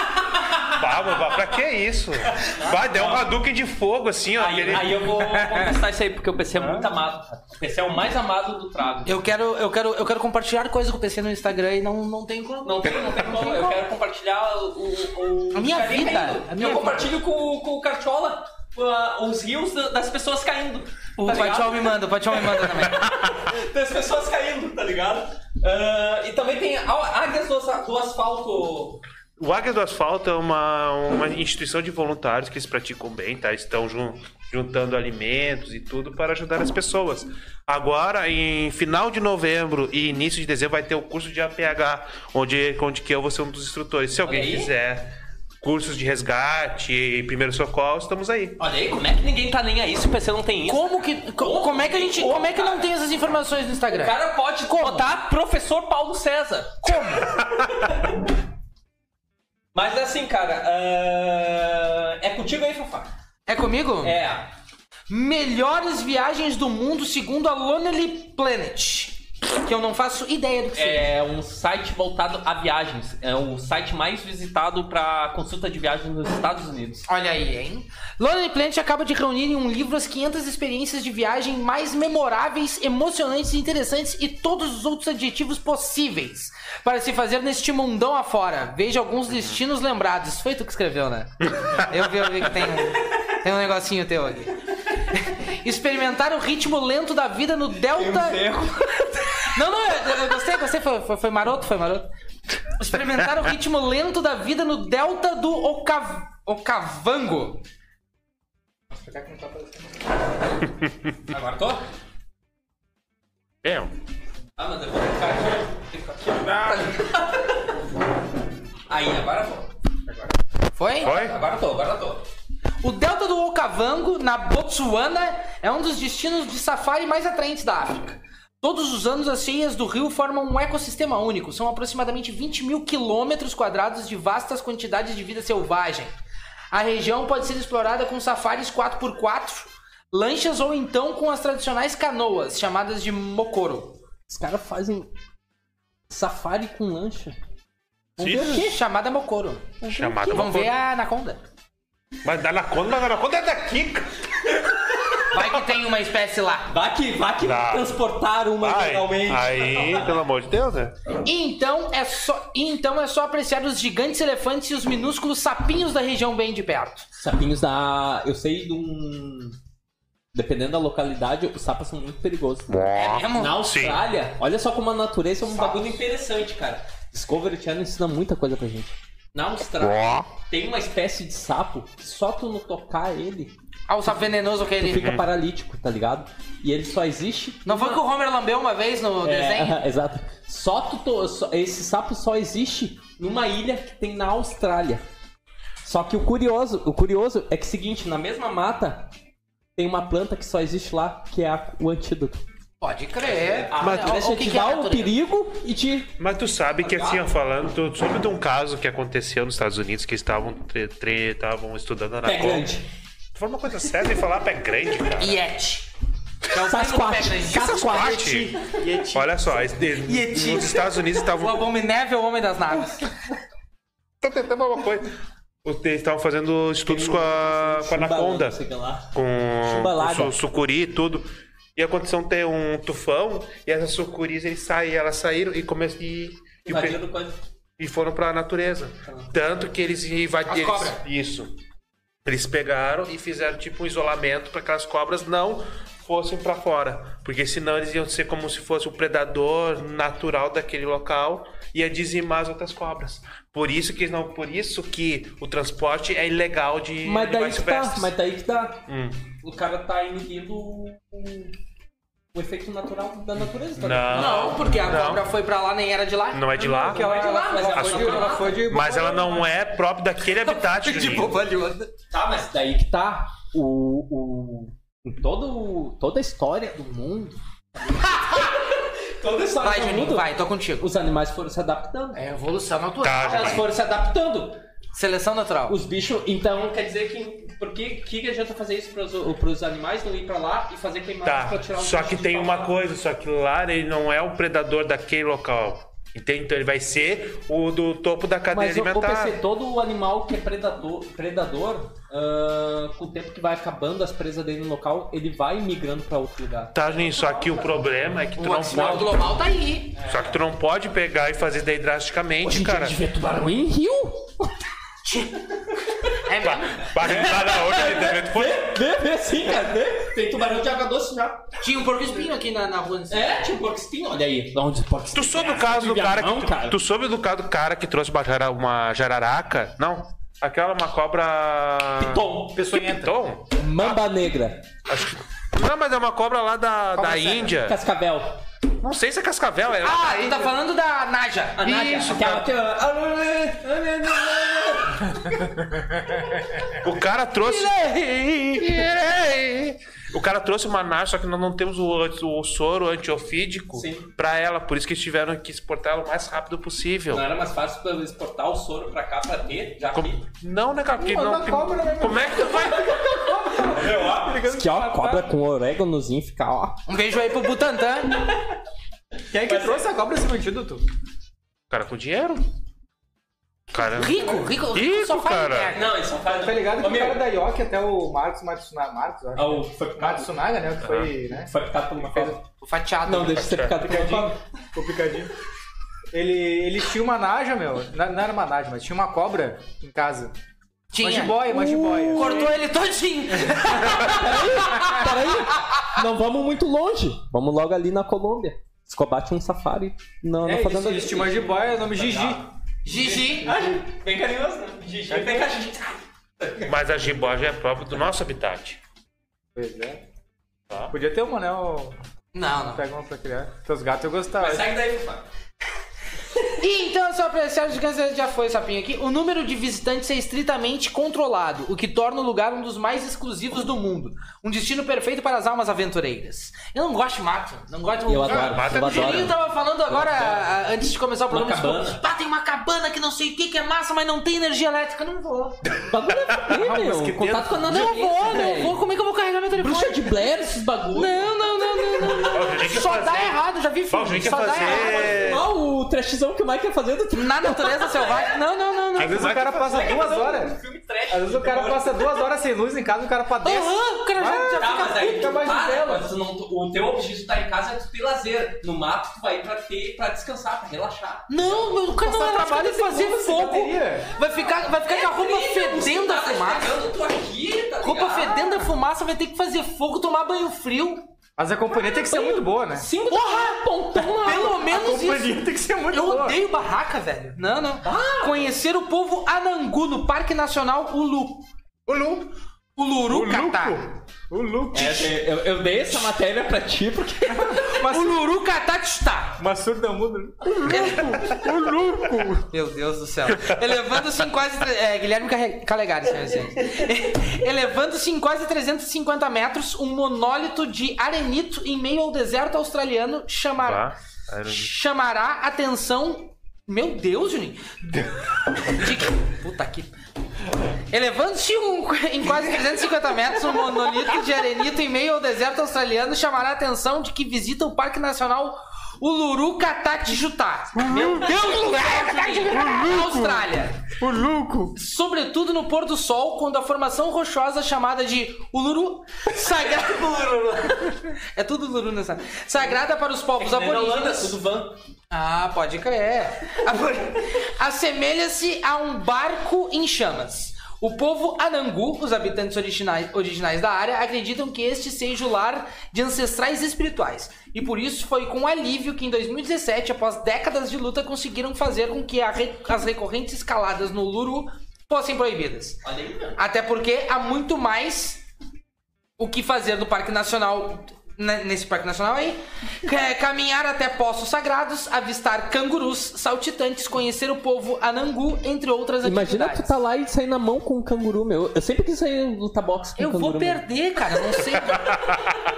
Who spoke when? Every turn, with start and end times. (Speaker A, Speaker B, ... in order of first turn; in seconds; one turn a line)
Speaker A: 0.3-0.6
Speaker B: 0.7-5.1
Speaker A: 2.3-3.2
Speaker A: 4.3-9.2
Speaker C: 5.1-5.8
Speaker C: 6.5-6.9
Speaker D: 9.0-13.8
Speaker A: 12.6-29.0
Speaker D: 15.5-17.1
Speaker D: 21.2-23.1
Speaker B: 29.4-48.6
Speaker A: 44.2-44.7
Speaker A: 48.6-52.9
Speaker D: 50.7-54.1
Speaker A: 53.9-58.2
Speaker D: 54.7-55.1
Speaker D: 56.8-57.3
Speaker A: 59.7-63.1
Speaker D: 63.5-64.2
Speaker A: 64.0-64.5
Speaker D: 65.1-71.1
Speaker A: 70.7-77.0
Speaker D: 77.1-94.5
Speaker B: 89.3-89.6
Speaker D: 95.0-98.4
Speaker A: 97.9-99.5
Speaker D: 99.5-102.1
Speaker D: 102.7-107.6
Speaker C: 108.9-110.0
Speaker A: 111.2-111.8
Speaker B: 113.6-113.9
Speaker A: 114.6-117.7
Speaker A: 118.9-119.7
Speaker D: 120.8-121.1
Speaker A: 120.9-122.2
Speaker B: 121.0-121.3
Speaker D: 122.8-136.1
Speaker D: 136.7-144.0
Speaker A: 144.3-145.1
Speaker A: 146.1-147.3
Speaker A: 148.2-148.8
Speaker D: 148.2-149.8
Speaker B: 148.2-148.5
Speaker A: 149.8-150.6
Speaker B: 149.9-150.7
Speaker D: 150.3-151.4
Speaker B: 152.2-154.1
Speaker A: 154.5-155.2
Speaker D: 155.3-156.7
Speaker A: 156.7-160.2
Speaker B: 157.4-158.0
Speaker B: 158.6-160.9
Speaker D: 161.2-167.1
Speaker A: 167.2-169.6
Speaker A: 170.3-183.5
Speaker D: 172.9-173.6
Speaker B: 173.5-174.0
Speaker D: 175.5-175.8
Speaker D: 183.9-185.2
Speaker A: 184.8-188.0
Speaker B: 184.9-185.3
Speaker D: 187.7-189.8
Speaker A: 189.2-195.0
Speaker A: 195.8-199.1
Speaker A: 199.8-202.4
Speaker D: 202.8-205.1
Speaker A: 203.2-206.1
Speaker B: 203.8-204.2
Speaker B: 206.2-212.8
Speaker A: 206.8-207.2
Speaker A: 212.2-212.9
Speaker B: 213.3-215.4
Speaker D: 215.2-215.9
Speaker D: 216.5-219.0
Speaker A: 216.5-218.4
Speaker B: 217.6-218.5
Speaker C: 218.8-219.2
Speaker B: 219.1-221.7
Speaker D: 220.1-223.1
Speaker B: 224.2-225.1
Speaker B: 225.6-228.6
Speaker A: 226.9-229.1
Speaker B: 229.1-237.0
Speaker A: 229.6-230.3
Speaker A: 236.7-237.4
Speaker B: 237.8-241.5
Speaker A: 239.1-239.3
Speaker D: 240.4-241.0
Speaker B: 242.2-258.1
Speaker A: 257.0-258.8
Speaker B: 258.9-259.2
Speaker A: 259.4-261.5
Speaker A: 262.3-264.6
Speaker B: 263.8-265.3
Speaker D: 264.1-267.1
Speaker B: 266.3-267.1
Speaker C: 266.6-269.5
Speaker A: 266.9-268.6
Speaker B: 267.8-271.4
Speaker D: 268.0-268.4
Speaker D: 270.7-271.9
Speaker A: 272.1-282.2
Speaker D: 278.0-278.5
Speaker D: 279.6-280.9
Speaker D: 282.1-283.6
Speaker B: 283.0-283.7
Speaker A: 283.2-284.6
Speaker D: 284.9-285.8
Speaker A: 285.7-292.8
Speaker B: 291.2-299.4
Speaker A: 298.5-307.8
Speaker B: 306.7-309.3
Speaker D: 308.4-310.0
Speaker A: 308.7-309.2
Speaker A: 309.9-310.4
Speaker B: 310.0-313.0
Speaker A: 312.4-314.5
Speaker D: 315.0-315.4
Speaker D: 316.2-317.2
Speaker B: 316.4-318.8
Speaker A: 317.0-321.4
Speaker D: 321.6-323.5
Speaker A: 323.1-326.8
Speaker B: 325.1-334.0
Speaker A: 332.0-332.6
Speaker C: 332.5-333.1
Speaker A: 333.6-334.6
Speaker B: 334.9-337.8
Speaker C: 336.9-337.5
Speaker A: 337.6-338.4
Speaker B: 338.8-340.5
Speaker D: 339.8-342.4
Speaker A: 341.6-345.6
Speaker B: 346.8-357.2
Speaker D: 347.4-348.7
Speaker A: 353.7-354.1
Speaker A: 357.1-360.2
Speaker B: 359.9-363.0
Speaker C: 361.0-365.3
Speaker A: 362.5-366.8
Speaker D: 366.9-368.2
Speaker C: 369.3-370.8
Speaker A: 369.4-369.9
Speaker B: 371.7-372.4
Speaker B: 373.7-375.8
Speaker D: 373.9-375.9
Speaker A: 375.7-377.2
Speaker C: 376.3-382.4
Speaker A: 379.3-380.3
Speaker B: 380.8-381.1
Speaker A: 381.4-382.4
Speaker D: 382.6-383.5
Speaker A: 383.1-384.4
Speaker B: 383.2-383.8
Speaker C: 383.8-385.3
Speaker C: 386.1-390.3
Speaker D: 390.9-391.5
Speaker C: 391.0-392.4
Speaker A: 391.4-392.6
Speaker D: 392.1-395.9
Speaker A: 393.7-402.4
Speaker C: 400.4-402.4
Speaker D: 402.8-403.5
Speaker C: 403.1-403.8
Speaker A: 403.1-406.7
Speaker C: 405.1-405.5
Speaker B: 406.6-408.8
Speaker C: 409.5-410.0
Speaker C: 410.9-411.9
Speaker D: 412.3-412.8
Speaker C: 412.6-414.7
Speaker A: 414.4-415.2
Speaker D: 416.5-435.6
Speaker A: 428.1-429.4
Speaker B: 428.2-429.3
Speaker A: 430.0-430.4
Speaker A: 431.3-432.0
Speaker A: 435.7-438.8
Speaker B: 436.4-436.6
Speaker C: 436.5-437.4
Speaker B: 437.2-437.5
Speaker D: 437.6-440.3
Speaker A: 439.5-442.3
Speaker D: 440.9-445.3
Speaker B: 442.3-443.4
Speaker B: 443.9-445.4
Speaker A: 444.6-448.3
Speaker D: 447.1-449.3
Speaker B: 449.0-449.9
Speaker C: 449.0-450.6
Speaker A: 449.6-452.2
Speaker C: 451.1-456.1
Speaker D: 453.4-455.2
Speaker A: 454.6-461.7
Speaker D: 461.3-466.8
Speaker C: 461.9-464.1
Speaker A: 464.9-468.6
Speaker D: 467.8-471.1
Speaker C: 471.4-472.9
Speaker A: 471.7-474.6
Speaker D: 473.1-481.4
Speaker C: 474.5-476.4
Speaker A: 477.8-478.5
Speaker C: 481.9-482.3
Speaker D: 482.8-483.8
Speaker C: 483.1-485.1
Speaker A: 484.7-487.7
Speaker C: 487.3-488.2
Speaker D: 487.8-489.4
Speaker C: 489.4-492.4
Speaker D: 490.6-491.2
Speaker D: 492.5-503.9
Speaker B: 503.6-504.7
Speaker D: 504.4-509.9
Speaker D: 510.9-523.9
Speaker C: 520.8-521.3
Speaker A: 520.9-522.5
Speaker C: 522.4-523.4
Speaker C: 524.0-524.7
Speaker D: 524.7-534.3
Speaker A: 533.4-534.7
Speaker D: 535.1-555.8
Speaker A: 555.8-556.4
Speaker D: 556.4-558.2
Speaker D: 559.2-569.7
Speaker A: 569.0-573.6
Speaker D: 573.0-575.2
Speaker B: 574.7-575.4